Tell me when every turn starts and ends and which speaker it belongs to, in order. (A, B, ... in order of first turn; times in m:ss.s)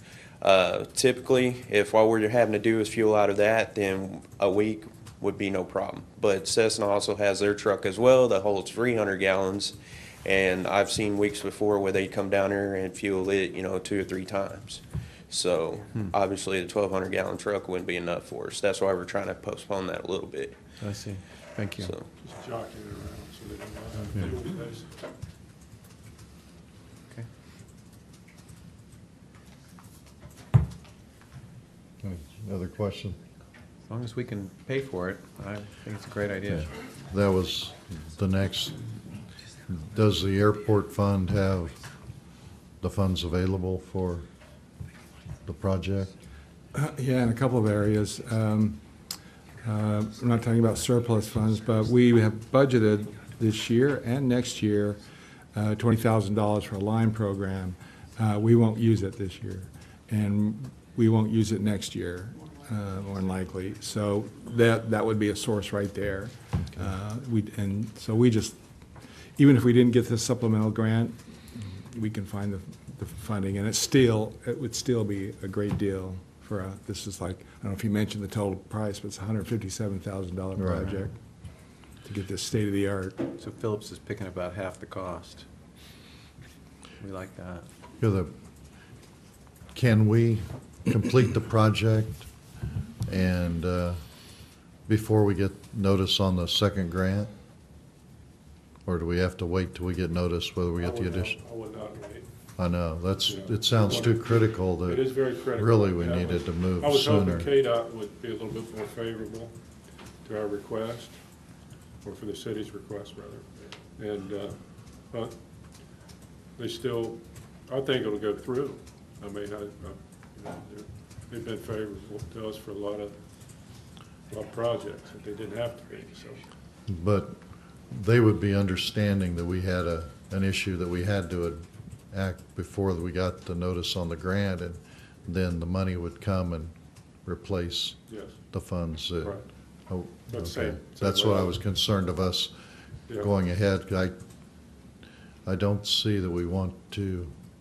0:00.4-0:20.6 A
0:20.8-0:21.9 B
0:21.8-0:22.0 A
0:22.2-0:24.9 C
0:23.9-0:24.3 B
0:32.0-0:33.2 D
0:33.9-0:36.7 B
0:36.6-0:38.9 D
0:39.8-0:41.8 D
0:42.8-0:44.3 D
0:45.4-0:46.1 D
0:46.7-0:48.8 E
0:49.6-0:55.0 E
0:55.5-1:08.6 E
1:09.3-1:21.1 E
1:20.6-1:21.0 D
1:22.0-1:23.3 E
1:23.3-1:25.4 B
1:27.0-1:27.7 B
1:28.0-1:28.3 D
1:29.7-1:32.3 D
1:33.0-1:34.0 D
1:34.9-1:37.3 D
1:38.8-1:41.3 D
1:40.8-1:42.3 C
1:42.6-1:47.5 D
1:43.2-1:49.5 C
1:50.2-1:51.2 C
1:52.0-1:53.4 C
1:54.0-1:54.6 C
1:56.6-2:03.2 C
2:04.3-2:06.5 C
2:06.9-2:07.4 D
2:07.9-2:16.7 D
2:17.2-2:22.5 D
2:18.1-2:18.4 C
2:19.2-2:19.4 C
2:20.3-2:21.6 C
2:23.2-2:24.2 D
2:25.4-2:27.3 D